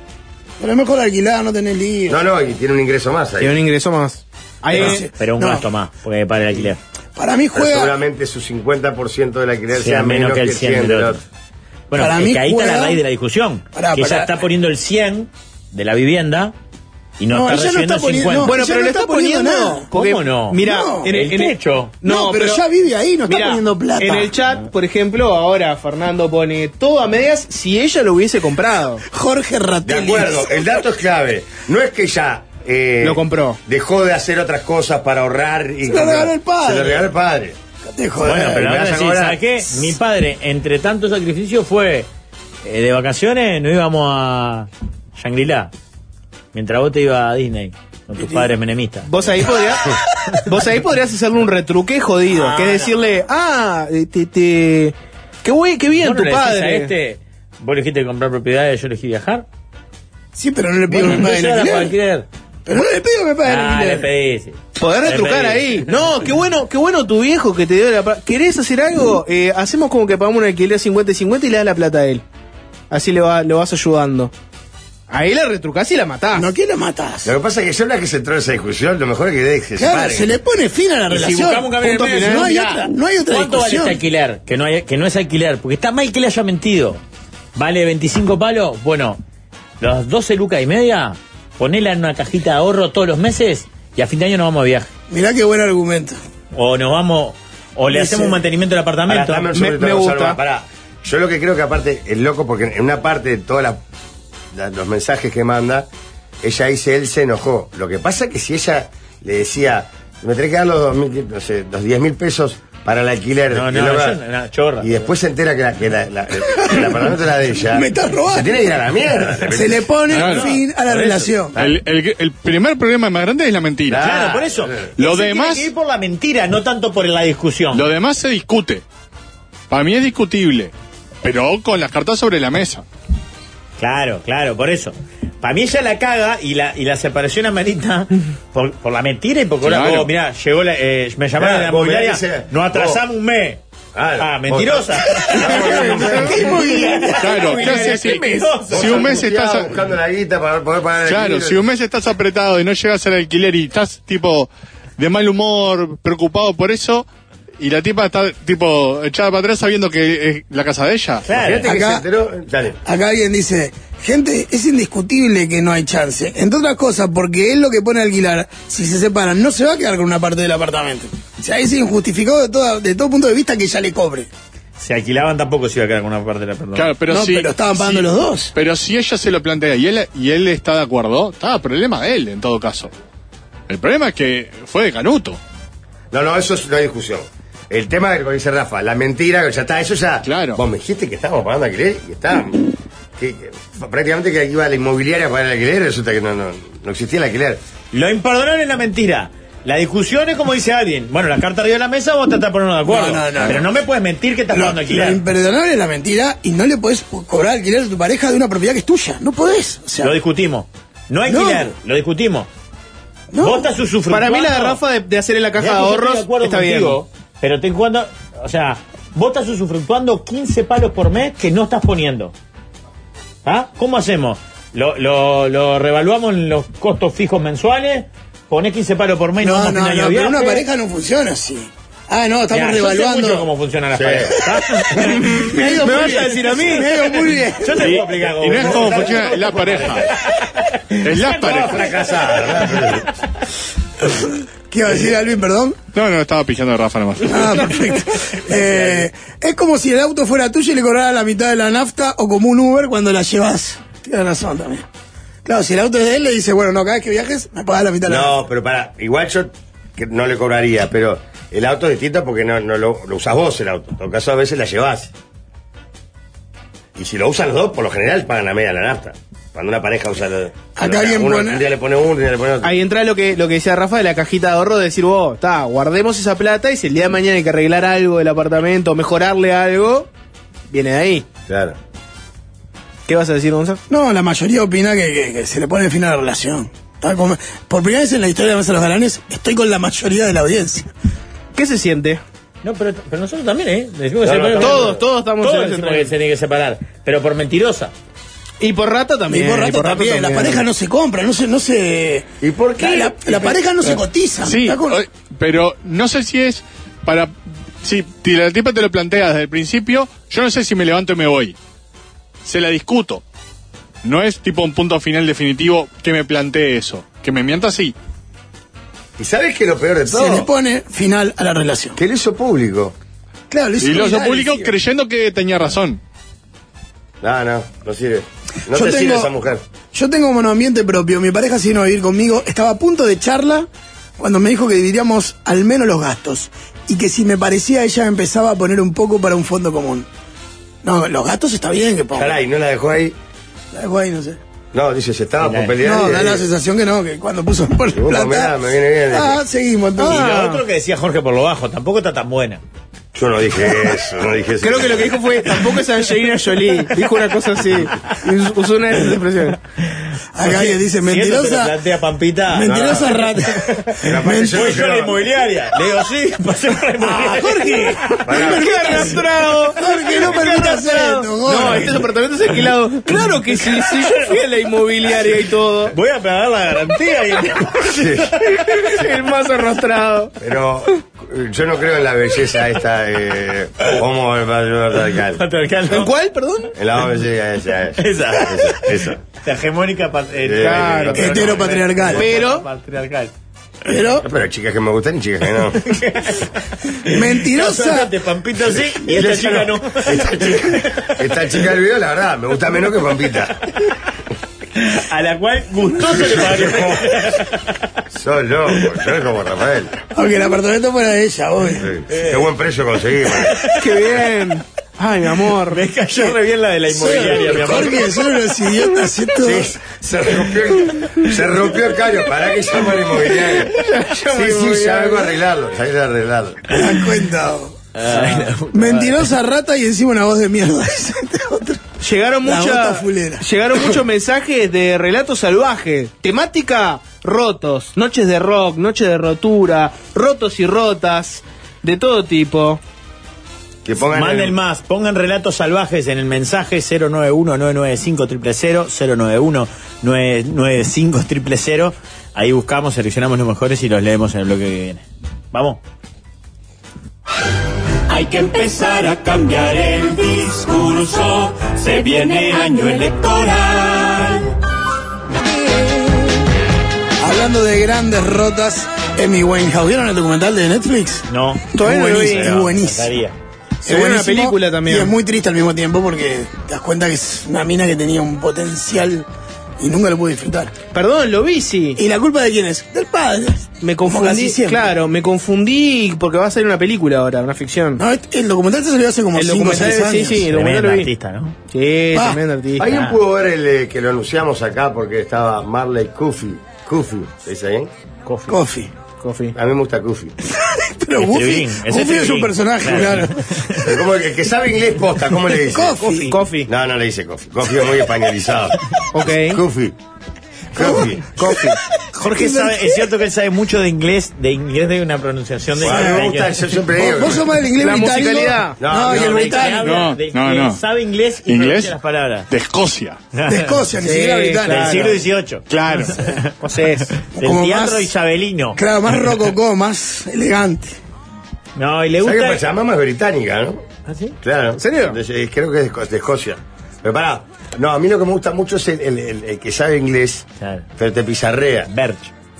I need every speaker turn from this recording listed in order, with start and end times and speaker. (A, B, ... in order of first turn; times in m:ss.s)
0:00.6-0:02.2 A
0:02.1-0:03.6 B
0:03.4-0:05.0 C
0:04.7-0:05.6 A
0:04.7-0:06.8 D
0:07.2-0:08.0 A
0:07.6-0:11.2 B
0:09.8-0:11.2 D
0:11.9-0:16.5 D
0:11.9-0:13.0 A
0:13.8-0:14.4 A
0:17.2-0:18.5 D
0:17.3-0:19.9 A
0:18.4-0:22.6 C
0:19.9-0:22.0 D
0:20.6-0:21.1 A
0:22.0-0:24.3 A
0:23.3-0:29.0 C
0:29.1-0:30.8 A
0:29.9-0:37.6 B
0:33.0-0:33.6 C
0:35.8-0:37.1 A
0:37.8-0:38.7 A
0:38.2-0:42.1 D
0:38.4-0:39.4 B
0:42.6-0:45.7 D
0:46.5-0:49.1 D
0:48.2-0:48.5 A
0:49.1-0:56.9 C
0:56.0-0:59.5 D
1:00.3-1:01.9 A
1:00.9-1:02.3 D
1:02.7-1:04.1 A
1:03.4-1:05.9 D
1:04.8-1:12.2 C
1:12.9-1:14.3 C
1:15.1-1:16.5 C
1:16.3-1:17.3 A
1:17.2-1:20.3 B
1:19.8-1:24.0 A
1:21.1-1:27.0 D
1:21.8-1:22.5 C
1:27.6-1:29.2 D
1:29.8-1:34.9 D
1:35.1-1:36.2 A
1:36.5-1:39.5 D
1:37.9-1:38.4 A
1:39.1-1:43.8 B
1:39.5-1:40.4 C
1:44.5-1:45.9 B
1:46.4-1:54.2 B
1:53.5-1:55.1 D
1:54.8-2:00.5 B
1:57.7-1:58.8 A
1:59.5-2:01.6 A
2:00.1-2:01.3 D
2:00.2-2:00.5 E
2:01.6-2:01.8 B
2:01.6-2:04.0 E
2:03.9-2:04.9 B
2:04.0-2:07.9 D
2:05.0-2:05.7 E
2:07.7-2:08.8 E
2:09.7-2:10.7 E
2:11.2-2:12.8 E
2:13.8-2:23.6 D
2:19.6-2:20.1 E
2:21.4-2:23.0 B
2:24.0-2:26.6 B
2:24.2-2:29.2 D
2:25.5-2:27.3 A
2:25.6-2:26.4 C
2:27.2-2:29.7 E
2:27.6-2:28.6 C
2:28.7-2:31.6 B
2:31.0-2:37.0 E
2:37.6-2:41.2 E
2:41.2-2:41.6 D
2:41.3-2:42.8 B
2:41.6-2:42.1 A
2:42.8-2:54.3 A
2:54.8-2:56.9 D
2:56.8-3:02.9 E
2:57.1-2:58.6 A
3:03.7-3:05.4 E
3:06.1-3:17.6 B
3:10.2-3:10.6 E
3:17.9-3:25.2 D
3:22.9-3:23.7 A
3:24.5-3:30.2 A
3:30.0-3:32.5 D
3:31.3-3:31.7 A
3:33.3-3:33.7 A
3:33.4-3:34.8 D
3:34.1-3:37.0 C
3:35.6-3:42.3 D
3:43.4-3:50.6 D
3:49.4-3:53.5 A
3:52.5-3:56.2 D
3:53.9-3:54.4 B
3:54.5-3:57.9 A
3:55.1-3:56.9 C
3:57.6-4:03.0 D
3:57.8-4:00.1 E
4:01.0-4:01.8 E
4:01.5-4:03.1 B
4:04.7-4:05.8 A
4:05.9-4:07.8 E
4:07.2-4:14.9 A
4:15.4-4:18.4 A
4:18.1-4:25.1 B
4:27.0-4:32.8 B
4:30.8-4:31.6 A
4:32.6-4:40.1 C
4:40.7-4:41.3 C
4:41.5-4:41.8 B
4:43.1-4:43.8 C
4:43.9-4:50.9 A
4:51.6-4:52.2 C
4:52.6-4:57.9 D
4:54.2-4:55.1 B
4:54.6-4:56.1 C
4:58.6-5:00.6 C
4:59.3-5:02.3 A
5:02.4-5:03.5 B
5:02.8-5:05.0 A
5:04.4-5:11.6 E
5:12.4-5:13.2 E
5:14.0-5:18.0 E
5:19.2-5:20.5 B
5:20.1-5:22.0 A
5:22.0-5:23.0 B
5:23.5-5:24.7 A
5:23.8-5:26.0 E
5:27.2-5:29.6 B
5:28.7-5:29.3 A
5:29.9-5:40.1 A
5:40.8-5:42.4 A
5:42.2-5:43.2 B
5:43.7-5:44.4 A
5:44.7-5:46.4 B
5:45.4-5:45.8 D
5:45.8-5:48.6 A
5:48.0-5:49.4 B
5:49.1-5:50.3 A
5:50.0-5:50.6 C
5:50.0-5:52.6 D
5:53.1-5:55.2 B
5:54.6-5:59.6 C
6:00.4-6:01.8 A
6:00.4-6:03.1 D
6:02.5-6:04.8 A
6:02.6-6:03.2 B
6:04.0-6:05.2 B
6:04.5-6:07.9 D
6:07.0-6:09.0 A
6:08.2-6:09.2 B
6:08.3-6:16.0 C
6:09.7-6:12.0 A
6:13.7-6:14.4 D
6:15.9-6:18.3 D
6:17.9-6:18.3 B
6:18.4-6:20.3 C
6:20.4-6:25.4 B
6:25.4-6:26.1 D
6:25.9-6:26.7 C
6:26.8-6:29.2 B
6:28.0-6:33.3 D
6:30.4-6:32.2 B
6:30.6-6:31.2 C
6:31.1-6:32.3 A
6:32.2-6:32.7 C
6:33.9-6:34.3 A
6:34.2-6:35.8 B
6:35.8-6:41.1 D
6:37.1-6:38.1 A
6:39.1-6:43.6 B
6:44.8-6:47.8 D
6:46.0-6:47.1 B
6:48.1-6:50.0 B
6:50.1-6:51.9 A
6:51.8-6:53.7 B
6:52.1-6:52.5 D
6:53.4-6:54.1 D
6:53.8-6:55.8 C
6:55.7-6:58.2 D
6:56.9-6:59.7 A
6:59.4-7:03.8 B
7:03.7-7:05.3 C
7:04.3-7:06.8 B
7:06.7-7:07.8 A
7:08.0-7:09.3 D
7:08.1-7:08.5 C
7:08.7-7:13.8 A
7:12.0-7:22.8 C
7:23.8-7:24.6 B
7:24.1-7:35.8 D
7:38.1-7:44.5 F
7:47.2-7:51.2 A
7:51.3-7:53.4 D
7:51.8-7:52.5 C
7:51.8-7:53.2 A
7:53.8-7:55.1 C
7:53.8-7:59.3 A
7:59.8-8:00.8 A
8:00.9-8:02.0 C
8:02.0-8:04.9 A
8:03.8-8:08.0 C
8:08.0-8:10.4 A
8:09.4-8:11.1 C
8:10.5-8:11.6 D
8:11.7-8:12.9 C
8:12.1-8:12.4 A
8:12.8-8:17.9 B
8:12.8-8:13.2 D
8:18.3-8:18.6 D
8:18.5-8:18.9 A
8:19.2-8:19.6 C
8:19.6-8:20.4 B
8:20.4-8:23.4 A
8:21.2-8:23.9 D
8:23.8-8:26.1 B
8:25.7-8:26.4 A
8:26.0-8:26.7 C
8:26.7-8:30.0 B
8:29.1-8:29.6 C
8:30.7-8:31.4 B
8:30.8-8:33.0 A
8:31.4-8:31.8 C
8:32.2-8:36.6 D
8:35.8-8:37.5 B
8:35.8-8:36.3 A
8:36.9-8:40.0 A
8:37.8-8:38.8 C
8:38.8-8:39.7 B
8:39.0-8:42.5 D
8:39.8-8:40.8 E
8:41.5-8:42.0 E
8:42.5-8:43.2 E
8:43.3-8:43.8 D
8:43.5-8:45.2 A
8:44.0-8:45.2 C
8:44.7-8:46.5 D
8:45.7-8:46.2 E
8:46.6-8:47.1 C
8:47.2-8:48.8 D
8:47.4-8:48.1 A
8:48.8-8:51.0 A
8:51.8-8:52.6 D
8:52.2-8:53.8 B
8:54.3-8:55.2 C
8:54.4-9:00.5 B
9:00.6-9:00.9 D
9:01.0-9:01.9 B
9:01.9-9:02.3 D